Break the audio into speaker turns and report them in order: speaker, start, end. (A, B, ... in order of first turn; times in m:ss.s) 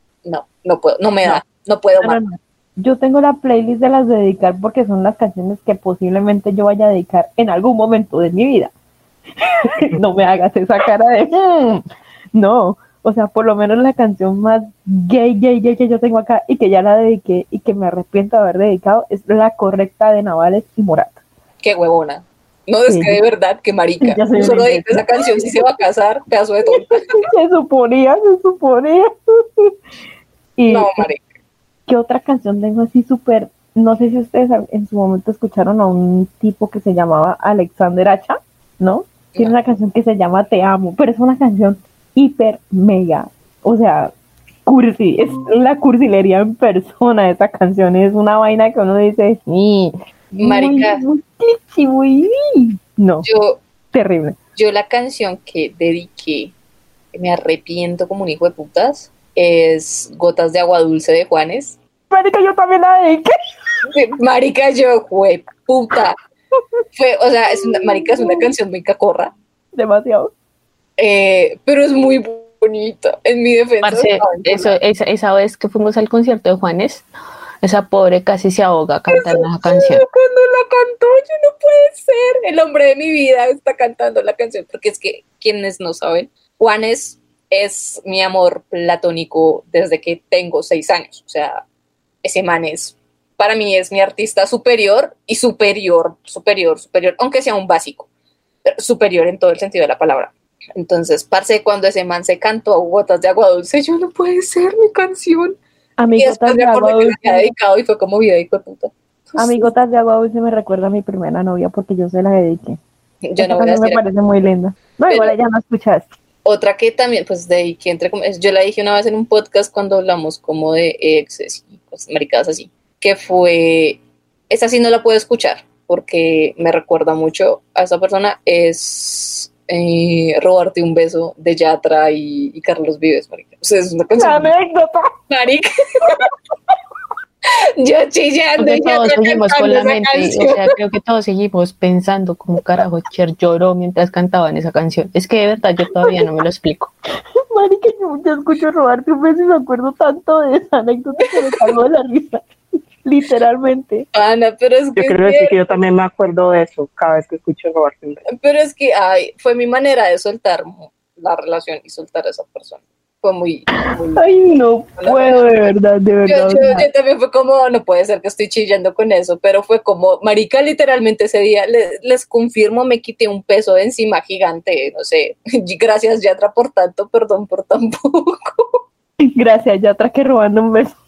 0:00.2-0:02.2 A
0:02.0-0:08.7 B
0:09.4-0:11.8 B
0:12.3-0:21.2 B
0:21.6-0:27.2 A
0:22.9-0:23.2 B
0:24.0-0:25.4 B
0:27.2-0:29.8 B
0:30.6-0:31.1 B
0:30.7-0:31.2 A
0:31.9-0:44.1 B
0:44.7-0:53.3 B
0:50.4-0:51.0 A
0:53.2-0:53.6 A
0:53.9-0:54.4 B
0:54.6-0:56.5 A
0:57.1-1:01.8 A
1:02.1-1:03.3 B
1:03.9-1:06.2 A
1:07.0-1:09.3 A
1:07.7-1:08.4 B
1:09.7-1:10.3 B
1:11.0-1:14.8 A
1:13.8-1:17.0 C
1:17.6-1:20.0 C
1:19.1-1:31.6 A
1:32.2-1:38.1 A
1:38.7-1:45.6 A
1:46.0-1:47.5 B
1:46.2-1:49.7 A
1:49.4-1:52.8 B
1:53.2-1:54.0 A
1:53.4-1:56.1 B
1:55.1-1:55.3 A
1:56.4-2:14.5 A
2:14.2-2:15.1 B
2:15.3-2:16.3 A
2:17.5-2:20.6 A
2:18.6-2:26.9 C
2:27.5-2:32.4 B
2:33.0-2:34.1 B
2:34.1-2:35.6 A
2:35.0-2:38.2 D
2:38.3-2:44.4 A
2:44.1-2:46.9 B
2:45.0-2:45.4 A
2:46.3-2:58.8 A
2:59.2-3:00.9 B